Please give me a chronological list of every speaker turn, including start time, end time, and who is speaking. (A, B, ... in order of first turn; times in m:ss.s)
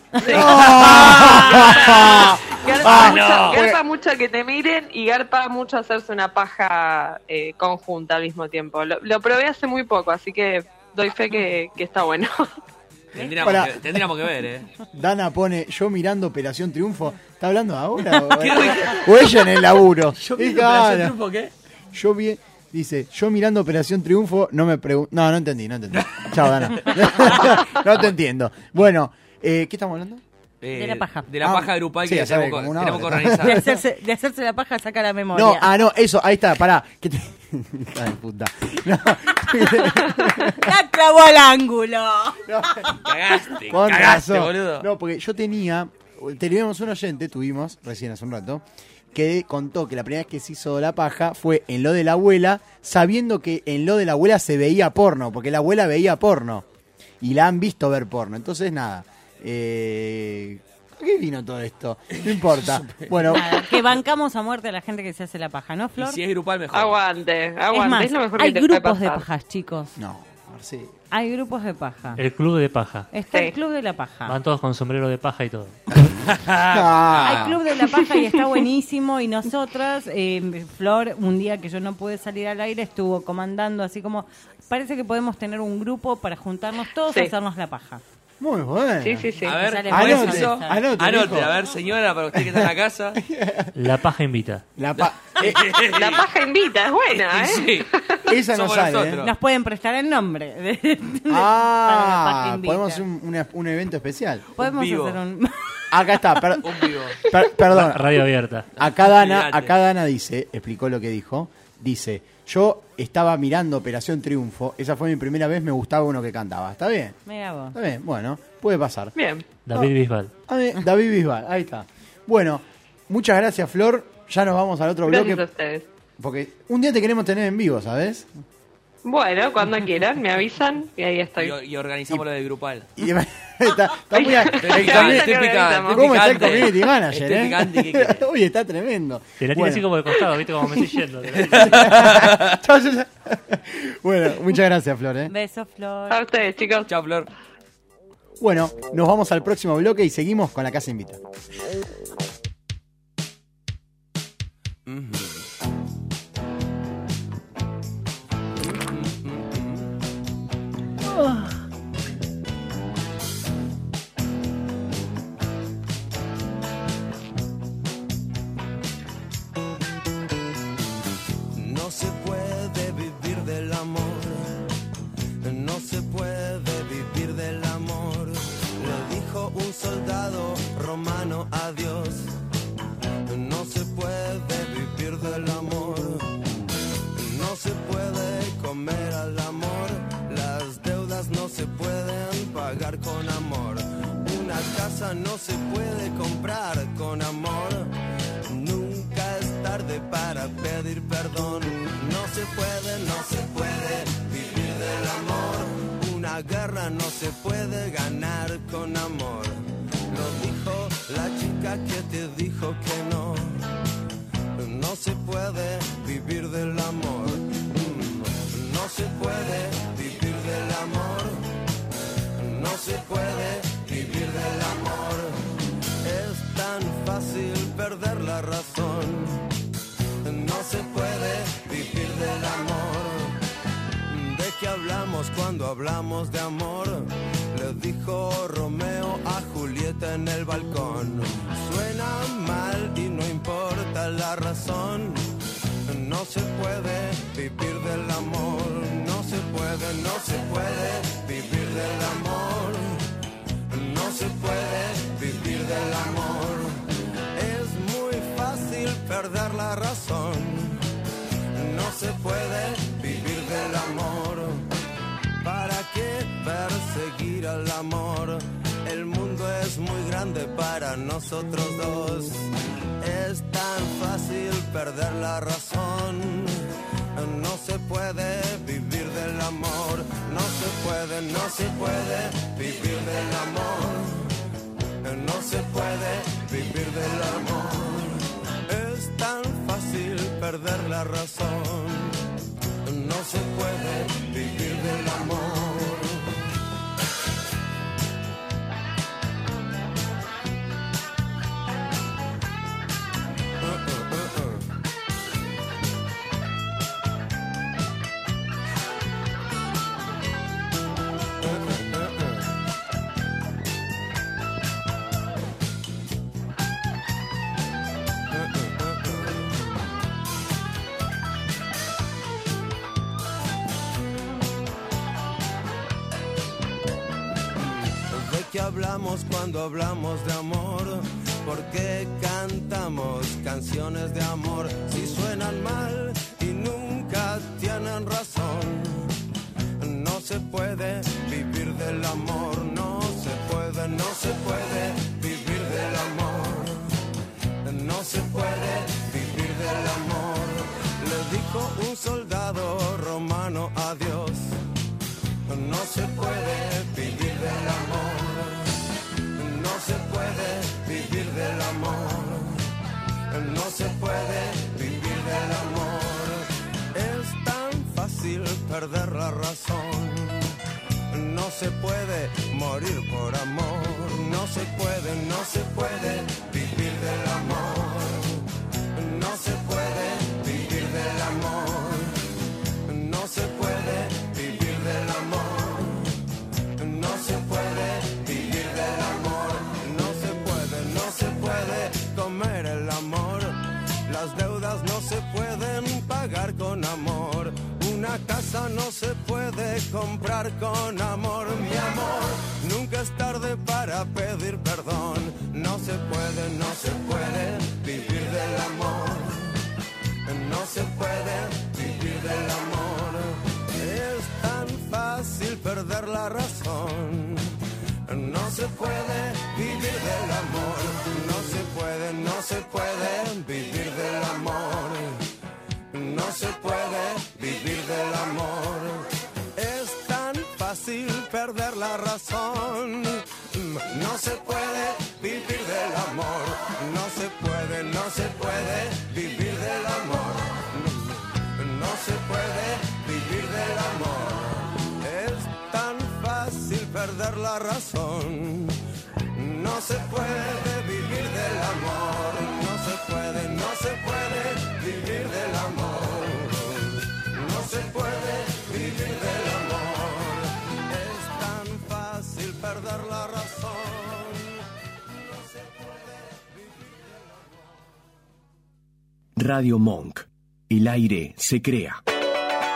0:00.2-0:00.8 A
0:00.2-0:12.5 B
0:00.2-0:03.8 C
0:00.6-0:02.2 D
0:02.7-0:03.7 D
0:13.1-0:14.7 D
0:13.4-0:14.0 C
0:14.9-0:21.2 C
0:18.1-0:19.1 D
0:20.2-0:21.5 D
0:21.9-0:30.2 C
0:26.0-0:26.9 D
0:30.6-0:33.6 D
0:30.7-0:31.3 A
0:31.4-0:33.6 C
0:33.4-0:35.7 A
0:35.3-0:40.7 C
0:40.4-0:42.4 A
0:42.5-0:43.1 C
0:43.0-0:44.9 D
0:43.6-0:56.6 C
0:57.2-1:03.5 C
1:02.2-1:03.4 D
1:03.3-1:06.2 A
1:06.0-1:07.0 D
1:06.7-1:09.2 B
1:07.7-1:09.9 A
1:10.0-1:10.9 C
1:11.1-1:12.2 A
1:12.2-1:13.1 E
1:13.1-1:14.4 A
1:14.3-1:15.7 E
1:16.2-1:17.6 D
1:16.7-1:17.6 C
1:17.2-1:28.0 A
1:28.4-1:29.3 C
1:29.0-1:29.6 B
1:29.4-1:33.2 D
1:29.6-1:30.8 A
1:29.9-1:31.6 C
1:32.3-1:33.7 C
1:33.8-1:34.6 E
1:34.8-1:35.7 C
1:35.0-1:36.2 D
1:35.9-1:38.2 B
1:37.1-1:37.9 D
1:38.3-1:39.2 C
1:38.4-1:39.3 D
1:39.2-1:43.0 A
1:41.3-1:44.4 C
1:44.6-1:45.2 D
1:44.6-1:45.6 A
1:45.9-1:48.2 C
1:46.6-1:47.2 D
1:47.7-1:48.7 E
1:48.8-1:57.2 C
1:48.8-1:49.7 D
1:57.2-1:57.8 A
1:57.7-1:59.1 C
1:59.2-1:59.4 B
1:59.6-2:00.3 E
2:00.5-2:05.4 C
2:05.0-2:05.9 B
2:06.2-2:08.3 C
2:09.0-2:11.5 B
2:11.4-2:12.9 D
2:13.0-2:19.9 C
2:14.1-2:16.1 B
2:14.6-2:18.2 D
2:19.4-2:21.7 E
2:21.4-2:22.5 D
2:21.6-2:25.3 C
2:25.3-2:26.2 A
2:26.1-2:26.9 B
2:26.9-2:27.3 D
2:28.4-2:31.2 C
2:34.9-2:35.2 F
2:51.6-2:54.5 F
2:55.4-3:02.3 F
3:03.2-3:06.3 F
3:07.1-3:17.9 F
3:18.4-3:33.6 F
3:34.5-3:41.4 F
3:42.4-3:45.4 F
3:46.0-3:49.4 F
3:50.2-3:53.4 F
3:54.1-4:05.2 F
4:05.8-4:13.0 F
4:13.7-4:16.8 F
4:17.3-4:20.8 F
4:21.5-4:24.6 F
4:25.4-4:32.5 F
4:33.0-4:44.3 F
4:45.0-4:52.2 F
4:52.8-4:56.3 F
5:03.9-5:04.4 F
5:18.4-5:19.2 F
5:27.6-5:39.1 F
5:39.8-5:46.8 F
5:47.6-5:54.6 F
5:55.4-5:58.8 F
5:59.3-6:02.6 F
6:03.3-6:10.5 F
6:11.1-6:22.2 F
6:22.8-6:26.1 F
6:26.8-6:49.5 F
6:50.2-7:05.2 F
7:05.9-7:28.8 F
7:29.3-7:44.6 F
7:45.2-7:47.4 F
7:49.4-7:52.0 G